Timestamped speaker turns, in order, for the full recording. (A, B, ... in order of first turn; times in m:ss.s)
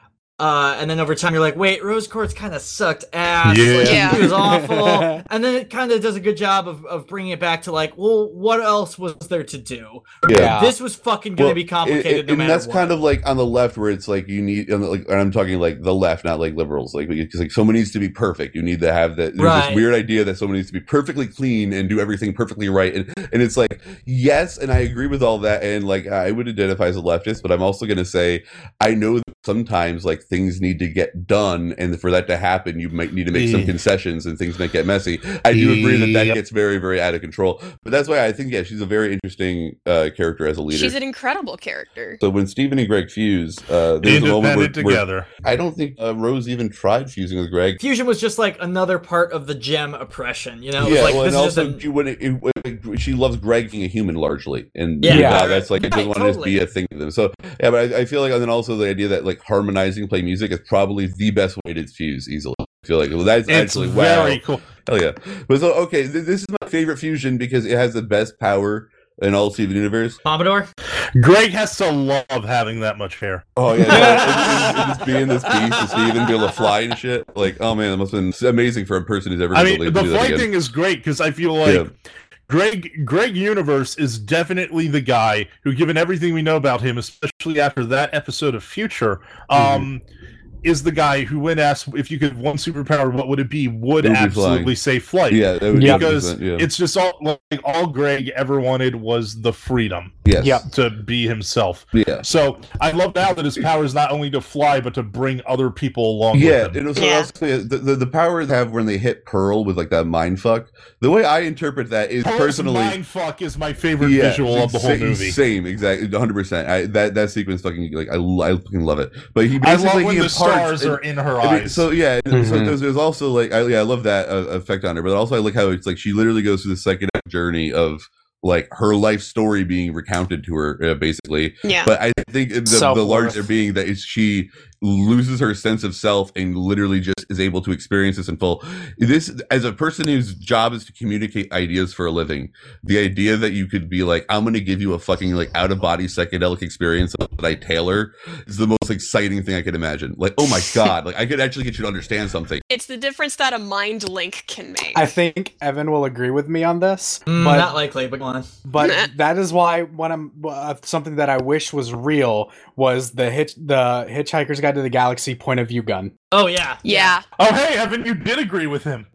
0:00.4-0:12.9 A
0:03.4-0:04.3 B
0:03.8-0:04.2 C
0:04.1-0:05.2 D
0:10.2-0:10.6 E
0:10.3-0:10.7 D
0:11.4-0:41.0 E
0:19.4-0:19.8 A
0:33.3-0:33.8 B
0:35.5-0:36.4 B
0:40.7-0:42.2 C
0:42.2-0:47.8 E
0:44.0-0:45.3 B
0:47.8-0:51.8 A
0:50.8-1:10.2 E
0:55.0-0:56.6 A
0:55.1-0:55.4 D
1:03.5-1:04.6 B
1:10.2-1:10.7 A
1:11.2-1:14.2 B
1:13.6-1:20.5 E
1:13.9-1:16.7 A
1:19.5-1:21.9 B
1:21.6-1:21.9 E
1:22.5-1:30.0 B
1:29.5-1:29.9 E
1:30.6-1:46.8 B
1:34.0-1:34.7 E
1:35.3-1:36.7 E
1:35.7-1:36.1 D
1:40.2-1:40.6 E
1:40.4-1:40.6 D
1:41.9-1:42.2 E
1:46.3-1:53.0 E
1:46.9-1:47.3 C
1:52.2-1:55.4 B
1:54.0-2:32.6 E
1:59.6-2:01.8 B
2:02.3-2:02.8 D
2:11.6-2:11.9 C
2:12.6-2:13.4 D
2:32.7-2:35.1 C
2:34.9-2:37.7 D
2:37.3-2:38.5 A
2:38.6-2:46.1 D
2:38.8-2:39.1 C
2:46.3-2:47.2 A
2:46.8-2:47.2 C
2:47.4-2:49.1 B